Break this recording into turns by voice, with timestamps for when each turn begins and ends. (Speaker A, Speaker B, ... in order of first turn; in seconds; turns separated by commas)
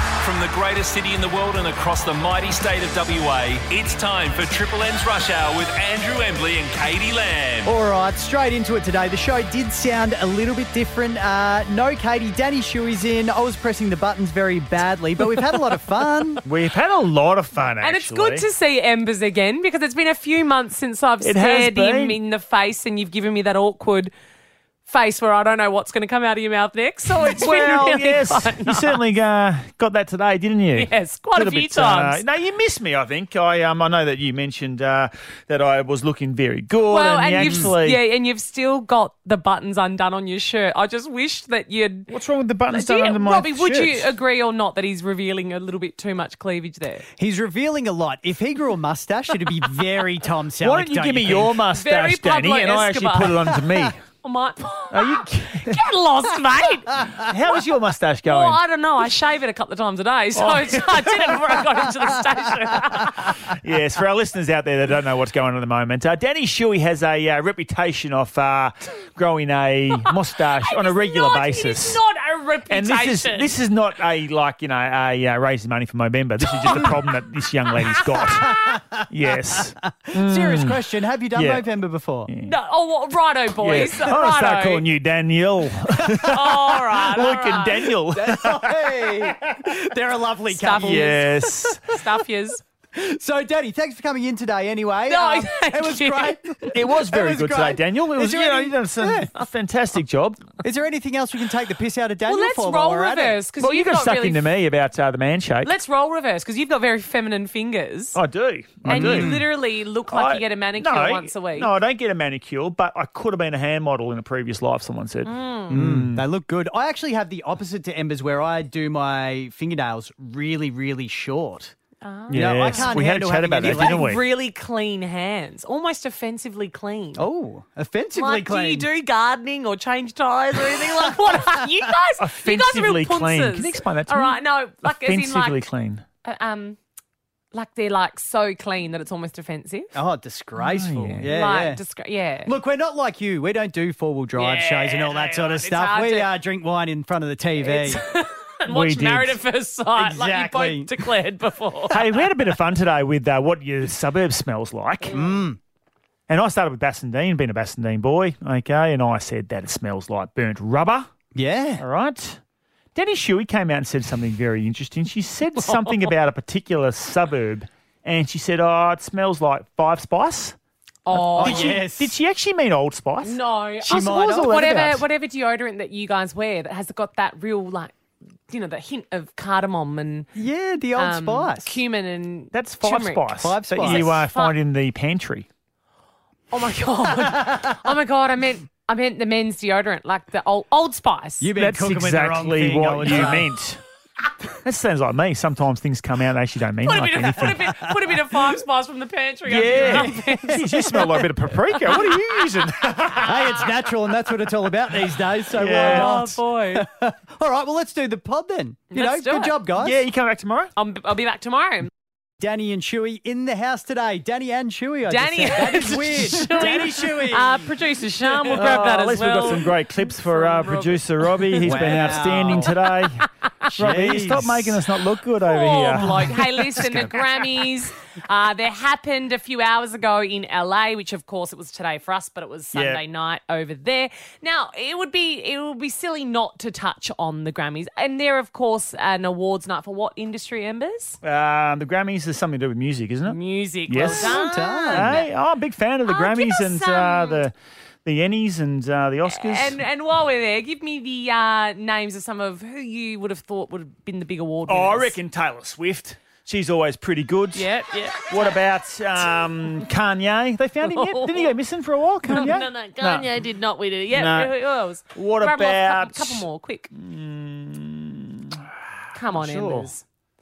Speaker A: 0.2-7.7, Speaker B: 7.7-16.4, Speaker C: 16.4-18.4, Speaker D: 17.8-24.1, Speaker C: 21.2-22.2, Speaker D: 24.9-29.0, Speaker C: 27.2-38.0, Speaker D: 30.8-32.2, Speaker D: 36.9-42.1, Speaker B: 37.4-37.7, Speaker C: 42.1-44.1, Speaker D: 42.7-47.1, Speaker B: 47.2-51.6, Speaker C: 50.6-54.0, Speaker D: 51.7-53.5, Speaker D: 54.2-57.0, Speaker C: 54.9-55.8, Speaker C: 57.1-58.6, Speaker D: 58.3-63.5, Speaker C: 60.4-61.3, Speaker C: 63.5-72.0, Speaker D: 69.9-73.5, Speaker C: 72.7-80.8, Speaker D: 76.6-77.1, Speaker D: 77.9-78.7, Speaker B: 78.2-79.0, Speaker B: 79.8-82.3, Speaker C: 81.3-81.6, Speaker C: 82.3-82.5, Speaker D: 82.4-84.8, Speaker C: 83.6-89.5, Speaker D: 86.2-87.9, Speaker B: 88.1-91.8, Speaker D: 90.5-91.3, Speaker C: 90.8-91.8, Speaker D: 91.8-92.6, Speaker B: 92.9-99.3, Speaker D: 95.1-96.7, Speaker C: 96.7-100.5, Speaker B: 100.6-103.4, Speaker D: 102.3-104.4, Speaker C: 103.6-105.7, Speaker D: 105.7-108.2, Speaker C: 108.2-109.5, Speaker B: 108.9-109.5, Speaker D: 108.9-111.7, Speaker C: 110.1-116.2, Speaker D: 115.2-115.8, Speaker B: 115.7-121.8, Speaker D: 122.0-123.0, Speaker C: 122.3-124.2, Speaker B: 122.3-124.1, Speaker D: 123.6-127.3, Speaker B: 127.2-128.9, Speaker D: 128.2-135.6, Speaker C: 132.2-136.0, Speaker D: 136.2-136.8, Speaker D: 137.5-140.0, Speaker B: 139.9-141.8, Speaker C: 140.6-141.3, Speaker D: 141.2-142.6, Speaker B: 142.4-148.0, Speaker D: 144.4-146.3, Speaker D: 147.6-152.0, Speaker C: 148.7-149.4, Speaker B: 150.0-151.1, Speaker C: 151.9-155.3, Speaker D: 155.1-155.3, Speaker B: 155.1-155.6, Speaker C: 156.3-161.1, Speaker B: 161.3-161.8, Speaker C: 161.8-162.4, Speaker C: 162.9-170.6, Speaker D: 165.7-166.1, Speaker D: 171.1-171.8, Speaker C: 171.1-173.4, Speaker B: 171.4-172.2, Speaker D: 173.2-177.9, Speaker B: 173.9-174.8, Speaker C: 174.1-175.0, Speaker D: 178.5-180.3, Speaker B: 180.3-181.7, Speaker D: 181.0-183.3, Speaker C: 182.5-185.5, Speaker B: 183.4-184.2, Speaker D: 183.8-184.6, Speaker D: 186.5-191.5, Speaker B: 187.3-187.7, Speaker B: 191.4-193.5, Speaker C: 191.6-193.8, Speaker C: 194.6-197.9, Speaker D: 196.8-201.0, Speaker C: 199.5-203.4, Speaker B: 199.8-201.3, Speaker D: 201.9-202.4, Speaker B: 203.2-210.0, Speaker C: 205.6-206.3, Speaker D: 205.7-206.8, Speaker D: 208.9-209.6, Speaker C: 209.8-210.7, Speaker D: 210.8-211.9, Speaker B: 212.4-217.7, Speaker D: 215.1-222.2, Speaker C: 218.3-227.2, Speaker B: 218.6-218.9, Speaker B: 221.6-222.8, Speaker B: 223.7-224.8, Speaker D: 225.4-241.2, Speaker C: 232.7-233.0, Speaker C: 241.2-244.4, Speaker D: 243.3-245.3, Speaker B: 244.1-245.2, Speaker C: 244.9-247.5, Speaker D: 246.1-247.5, Speaker C: 248.1-249.8, Speaker D: 249.3-255.2, Speaker C: 254.7-257.7, Speaker D: 257.6-258.5, Speaker C: 258.3-263.3, Speaker D: 260.8-261.5, Speaker D: 262.3-266.9, Speaker C: 264.1-264.5, Speaker C: 265.1-268.6, Speaker D: 269.1-270.0, Speaker C: 269.3-269.9